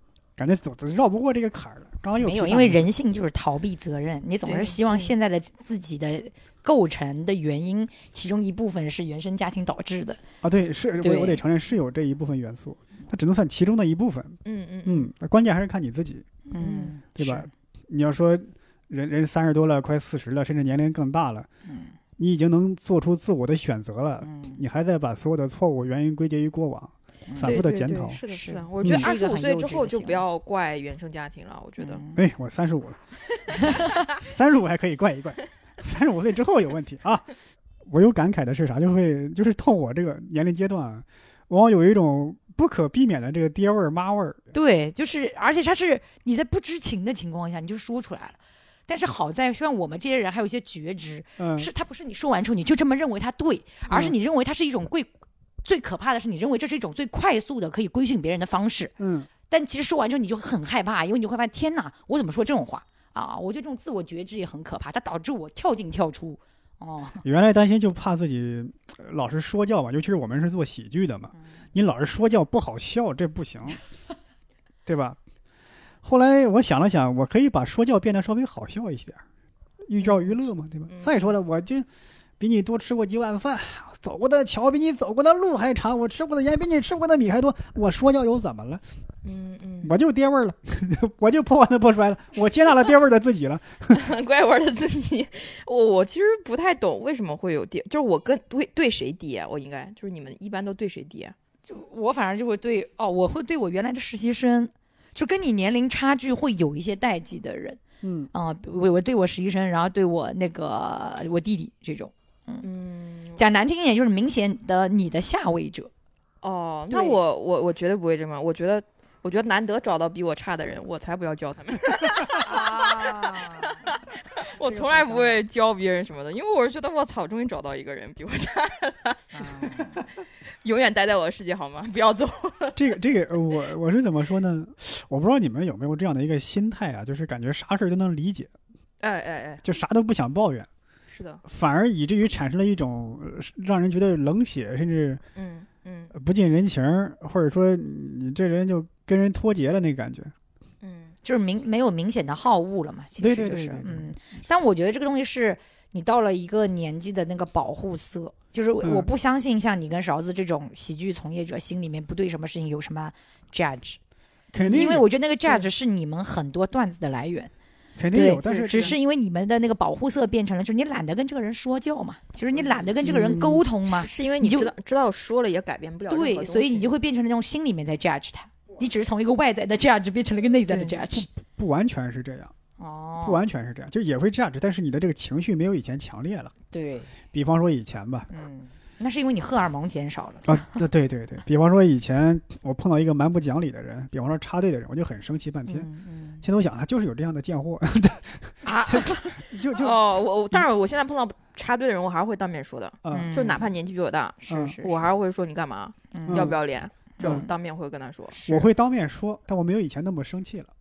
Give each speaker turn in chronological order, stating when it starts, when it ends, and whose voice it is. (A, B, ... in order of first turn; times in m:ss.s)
0:00.4-0:02.9 A
0:02.2-0:10.2 B
0:04.4-0:05.1 C
0:10.4-0:16.3 A
0:11.0-0:11.4 B
0:14.4-0:15.1 C
0:16.5-0:17.5 B
0:17.1-0:21.5 A
0:21.7-0:21.9 B
0:22.2-0:28.2 A
0:24.2-0:24.6 B
0:27.3-0:27.6 B
0:27.4-0:32.0 C
0:28.3-0:30.2 B
0:28.8-0:29.1 A
0:31.8-0:32.2 B
0:32.1-0:33.0 A
0:33.5-0:37.3 A
0:37.9-0:44.4 A
0:44.5-0:55.1 B
0:51.4-0:51.7 A
0:53.9-0:54.2 A
0:55.6-0:59.0 B
0:59.0-0:59.3 A
0:59.5-1:07.2 B
1:07.2-1:13.8 A
1:14.9-1:15.2 A
1:16.0-1:19.2 A
1:19.9-1:21.9 A
1:20.9-1:21.3 C
1:22.4-1:28.8 A
1:29.2-1:29.9 C
1:29.8-1:34.1 A
1:33.9-1:41.4 C
1:41.7-1:47.8 B
1:48.0-1:48.3 A
1:48.3-1:52.7 B
1:52.6-1:53.4 C
1:53.4-1:55.9 B
1:56.4-2:10.1 C
1:56.9-1:57.2 B
2:02.4-2:03.9 B
2:04.7-2:05.1 A
2:04.8-2:05.3 B
2:09.3-2:10.0 B
2:10.6-2:12.8 C
2:12.8-2:18.5 A
2:19.0-2:19.6 C
2:19.6-2:20.7 A
2:21.1-2:21.4 C
2:21.4-2:25.2 A
2:25.4-2:26.1 C
2:26.1-2:30.3 A
2:30.8-2:31.2 C
2:31.2-2:44.0 B
2:33.2-2:34.1 A
2:38.8-2:39.1 A
2:44.5-2:45.1 A
2:44.6-2:47.5 B
2:48.0-2:49.0 A
2:48.1-2:54.7 B
2:48.5-2:48.9 C
2:52.6-2:56.9 C
2:53.0-2:53.6 A
2:56.1-3:01.3 B
3:00.7-3:01.0 C
3:01.1-3:02.5 A
3:02.8-3:03.4 B
3:03.2-3:06.5 A
3:06.7-3:07.1 B
3:07.3-3:08.3 A
3:08.3-3:10.8 B
3:10.5-3:15.9 A
3:15.7-3:16.4 B
3:16.4-3:20.0 A
3:18.7-3:28.5 C
3:23.0-3:23.3 A
3:23.1-3:23.7 B
3:24.4-3:25.0 B
3:24.5-3:24.8 A
3:26.1-3:26.5 B
3:26.3-3:26.6 A
3:27.2-3:27.4 B
3:27.2-3:27.5 A
3:28.4-3:28.6 B
3:28.5-3:30.7 A